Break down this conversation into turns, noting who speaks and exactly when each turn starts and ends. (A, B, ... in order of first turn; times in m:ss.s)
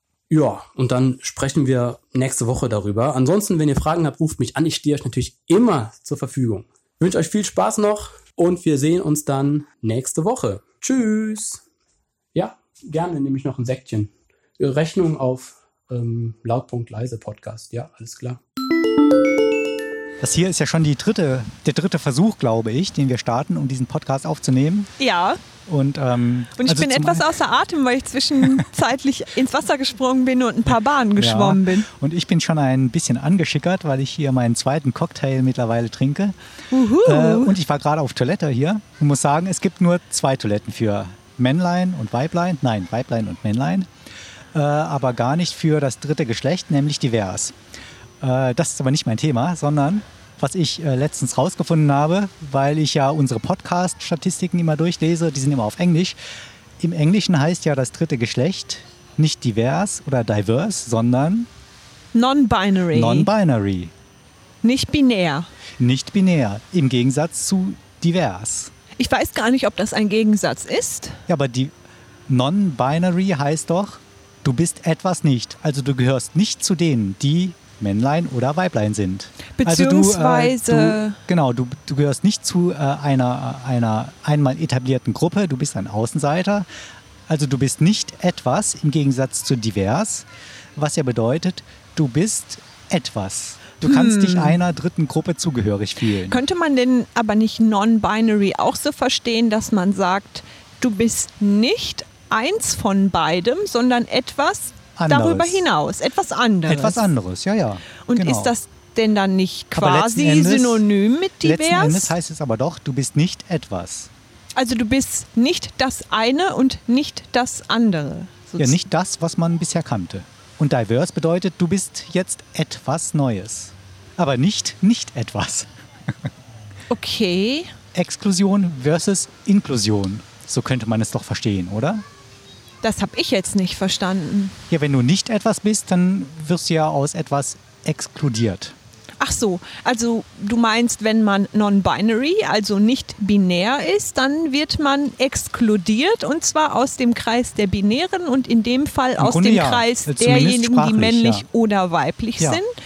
0:00.3-0:11.6 A
0:12.3-0:18.4 A
0:20.2-0:24.9 B
0:25.0-0:25.4 C
0:25.6-0:27.3 B
0:26.6-0:31.9 C
0:31.2-0:36.3 B
0:36.7-0:37.6 C
0:37.0-0:43.9 B
0:44.5-0:47.6 B
0:48.2-0:56.2 B
0:56.8-1:01.5 B
1:02.1-1:03.3 C
1:02.9-1:03.9 B
1:04.6-1:05.5 C
1:05.8-1:08.7 B
1:09.0-1:11.2 C
1:11.3-1:11.7 B
1:12.3-1:26.6 B
1:19.6-1:21.2 C
1:27.3-1:36.4 B
1:33.8-1:34.6 C
1:36.2-1:47.1 C
1:45.0-1:45.6 B
1:46.6-1:48.5 B
1:48.1-1:52.1 C
1:49.7-1:50.8 B
1:51.4-1:54.1 B
1:54.6-1:58.8 C
1:58.6-2:06.3 B
2:06.9-2:07.7 C
2:07.9-2:12.0 B
2:12.8-2:14.6 C
2:14.7-2:18.7 B
2:19.2-2:32.7 C
2:29.2-2:31.4 B